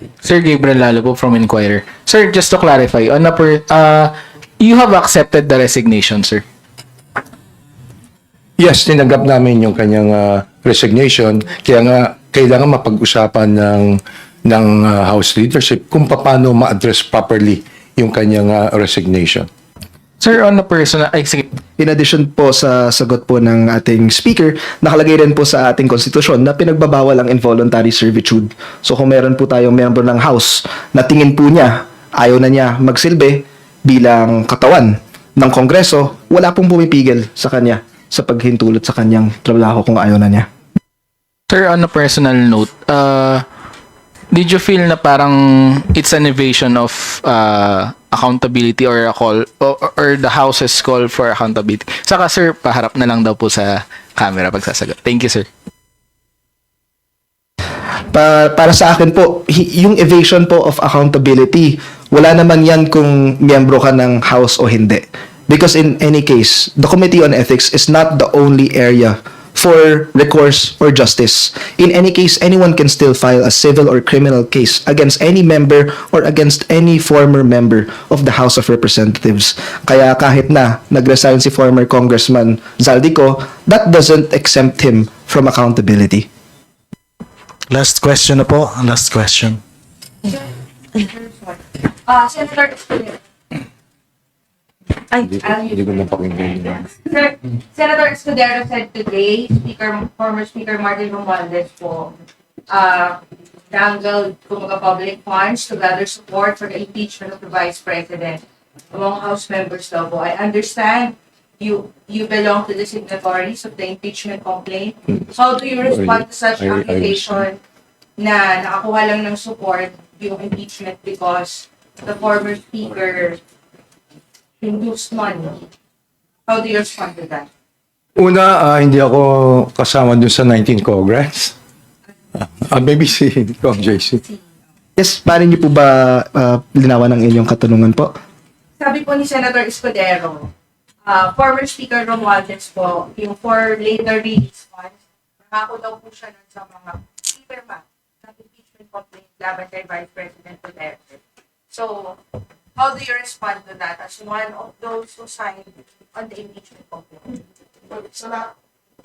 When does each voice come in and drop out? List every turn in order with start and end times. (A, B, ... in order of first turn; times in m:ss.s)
0:00.2-0:06.4 A
0:08.6-0:19.5 B
0:20.2-0:21.5 A
0:21.8-0:40.4 C
0:41.5-0:43.4 A
0:44.3-0:55.5 A
0:58.1-1:26.3 C
1:27.7-1:29.6 D
1:31.0-1:33.2 E
1:35.2-1:36.9 B
1:35.3-1:36.2 E
1:36.8-1:42.1 E
1:42.7-1:57.6 E
1:55.9-1:57.4 B
1:58.2-2:03.4 E
2:04.6-2:05.7 E
2:06.4-2:07.5 E
2:08.2-2:11.5 B
2:12.4-2:14.2 B
2:15.0-2:18.1 C
2:18.8-2:20.5 E
2:21.0-2:32.2 E
2:32.8-2:38.5 E